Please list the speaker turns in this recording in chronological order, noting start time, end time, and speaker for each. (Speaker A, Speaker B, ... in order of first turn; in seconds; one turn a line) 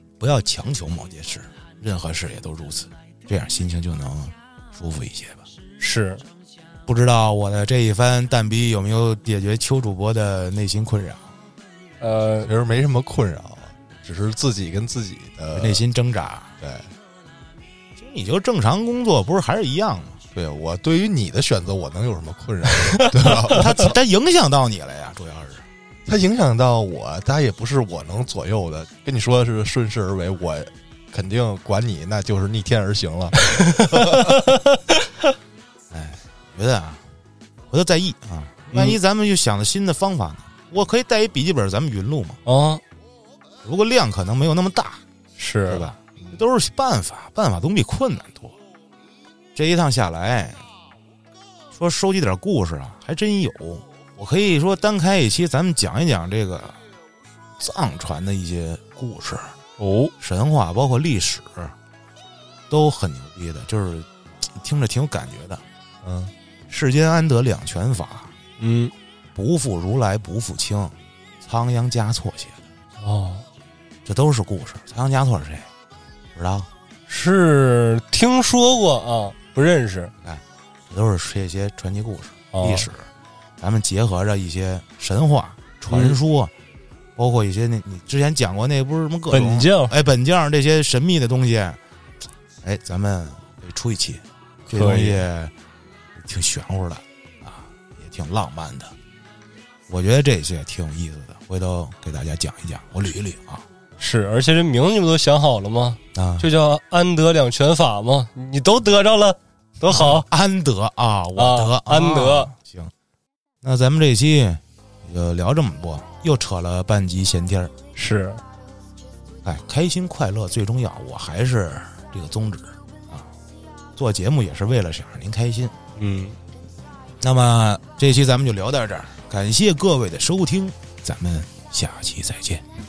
Speaker A: 0.2-5.4
Speaker B: 5.8-6.2
Speaker A: 6.9-11.3
Speaker B: 12.0-12.5
Speaker C: 12.4-15.8
Speaker A: 15.5-16.5
Speaker C: 16.6-16.9
Speaker A: 18.0-20.2
Speaker C: 20.3-24.0
Speaker A: 23.4-25.6
Speaker C: 26.1-34.3
Speaker B: 33.5-35.0
Speaker A: 35.9-37.0
Speaker A: 37.7-42.4
Speaker B: 38.7-39.0
Speaker B: 42.5-42.8
Speaker A: 43.6-45.0
Speaker B: 45.4-45.9
Speaker A: 45.7-48.5
Speaker A: 49.5-50.6
Speaker A: 51.7-56.8
Speaker A: 57.6-59.5
Speaker B: 59.8-60.1
Speaker A: 60.2-61.7
Speaker A: 62.7-65.6
Speaker C: 66.0-66.3
Speaker A: 66.7-68.3
Speaker B: 68.6-68.9
Speaker A: 69.3-72.6
Speaker B: 73.0-73.5
Speaker A: 74.0-75.7
Speaker A: 76.3-76.7
Speaker B: 77.1-80.1
Speaker A: 80.2-83.1
Speaker B: 82.5-82.9
Speaker A: 83.6-86.5
Speaker B: 85.9-86.2
Speaker A: 87.2-91.8
Speaker B: 89.3-89.9
Speaker A: 92.6-95.5
Speaker B: 94.7-95.2
Speaker A: 96.2-98.9
Speaker A: 99.9-103.6
Speaker B: 104.0-110.2
Speaker A: 106.1-106.5
Speaker A: 109.9-112.9
Speaker B: 111.3-112.5
Speaker A: 113.6-117.7
Speaker B: 118.0-118.4
Speaker A: 119.4-123.3
Speaker A: 124.0-125.7
Speaker B: 126.0-126.4
Speaker A: 127.2-132.6